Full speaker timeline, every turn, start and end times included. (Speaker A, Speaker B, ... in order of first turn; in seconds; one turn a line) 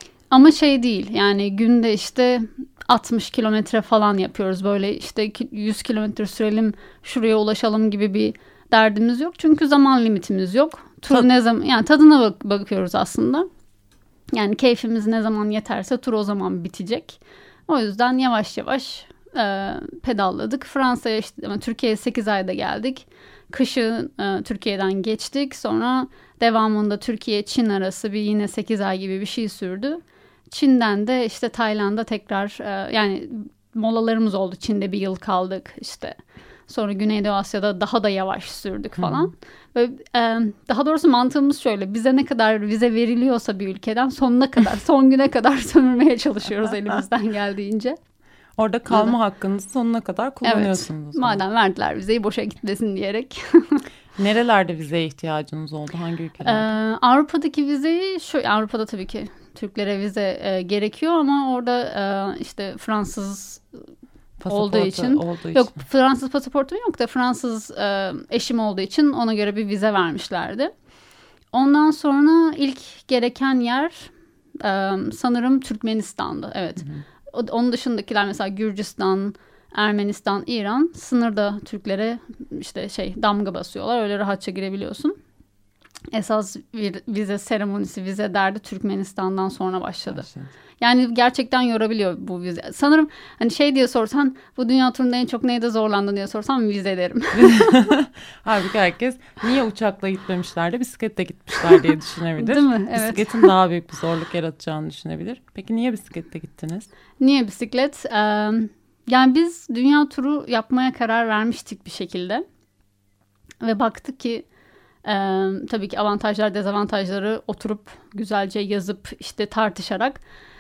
Speaker A: 0.3-13.5
Speaker A: 14.3-48.0
Speaker B: 39.0-39.3
Speaker B: 48.6-51.4
Speaker A: 48.9-49.1
Speaker A: 50.4-53.8
Speaker B: 54.2-56.7
Speaker A: 56.4-63.6
Speaker B: 64.4-65.8
Speaker A: 64.5-70.7
Speaker A: 71.5-85.2
Speaker A: 86.1-90.2
Speaker B: 90.1-90.5
Speaker A: 90.8-97.7
Speaker B: 97.3-106.9
Speaker A: 102.4-103.5
Speaker A: 107.2-112.5
Speaker A: 113.6-114.5
Speaker A: 115.0-120.2